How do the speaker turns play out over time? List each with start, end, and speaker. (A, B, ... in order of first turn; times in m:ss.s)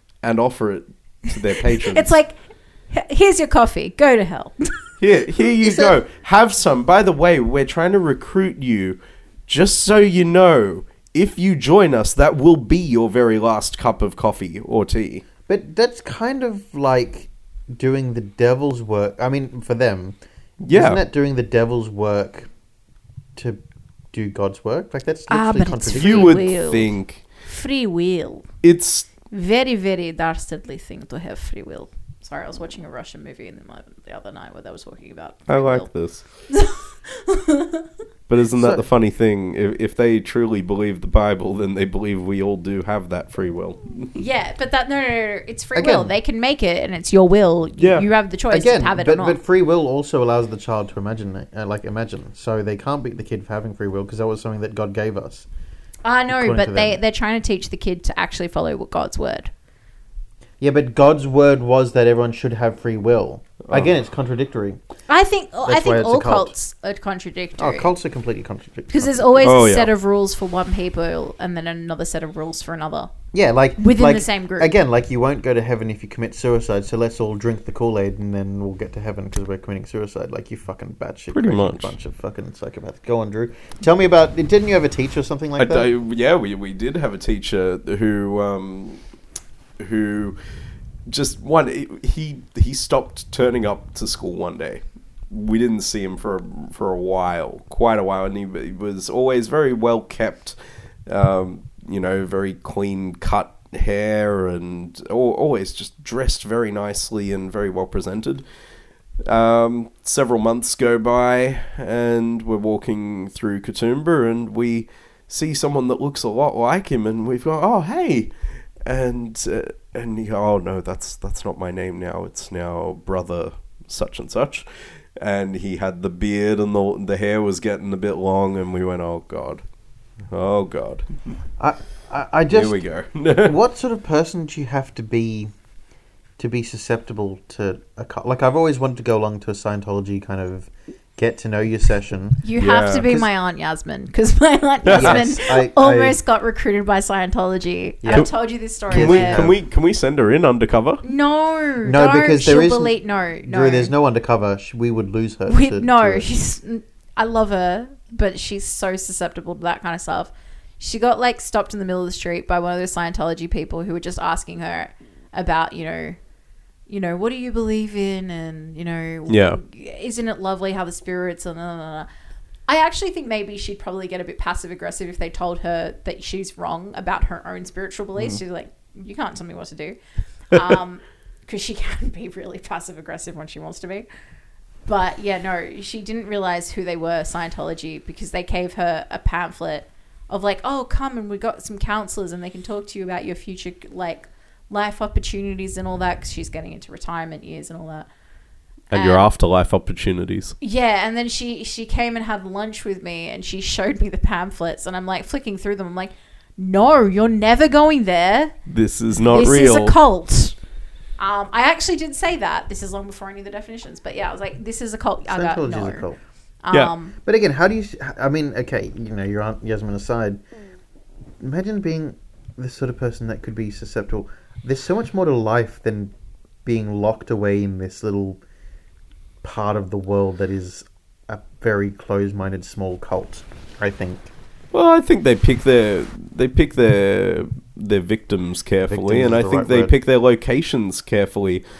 0:00.2-0:02.1 A
0:01.6-0:02.4 B
0:02.9-0:04.7 B
0:05.0-0:15.2 A
0:05.6-0:06.0 C
0:15.4-0:20.2 C
0:20.6-0:21.0 A
0:20.7-0:22.5 C
0:24.1-0:26.4 C
0:25.3-0:26.9 B
0:25.9-0:27.3 A
0:27.4-0:28.4 B
0:28.6-0:29.1 A
0:29.3-0:35.9 B
0:35.5-0:36.2 A
0:36.5-0:37.9 B
0:38.3-0:44.2 A
0:38.6-0:38.8 C
0:44.2-0:49.4 B
0:45.7-0:46.1 C
0:47.8-0:48.1 A
0:48.5-0:55.4 C
0:56.0-0:59.5 B
0:56.3-0:57.0 C
1:00.6-1:04.8 C
1:05.1-1:07.9 B
1:05.6-1:06.5 C
1:07.6-1:09.4 C
1:08.9-1:13.1 B
1:09.4-1:09.9 A
1:13.3-1:25.9 C
1:13.8-1:14.7 B
1:21.3-1:21.9 A
1:25.6-1:29.0 A
1:29.8-1:30.4 A
1:31.1-1:40.6 A
1:41.1-1:48.4 A
1:49.2-1:58.3 A
1:58.8-2:04.6 A
2:05.2-2:09.6 A
2:10.3-2:11.1 A
2:11.6-2:12.8 C
2:12.5-2:13.5 A
2:13.4-2:15.5 C
2:16.4-2:22.4 C
2:22.4-2:29.5 B
2:22.6-2:23.1 A
2:23.0-2:23.3 C
2:24.8-2:25.3 A
2:24.9-2:26.2 C
2:28.0-2:28.3 C
2:28.9-2:29.6 C
2:28.9-2:31.0 A
2:31.0-2:33.9 B
2:31.8-2:36.3 C
2:35.5-2:46.2 B
2:46.9-2:52.1 B
2:49.3-2:49.6 A
2:52.7-3:00.0 B
3:00.5-3:04.1 B
3:04.9-3:18.1 B
3:18.9-3:20.6 A
3:18.9-3:19.3 B
3:20.6-3:28.5 B
3:28.7-3:30.0 A
3:29.3-3:30.6 B
3:31.2-3:36.1 B
3:35.3-3:36.2 C
3:36.6-3:37.1 B
3:37.2-3:40.4 C
3:41.4-3:46.1 C
3:46.6-3:48.4 C
3:49.4-3:54.3 C
3:54.7-4:01.6 A
3:58.9-3:59.9 C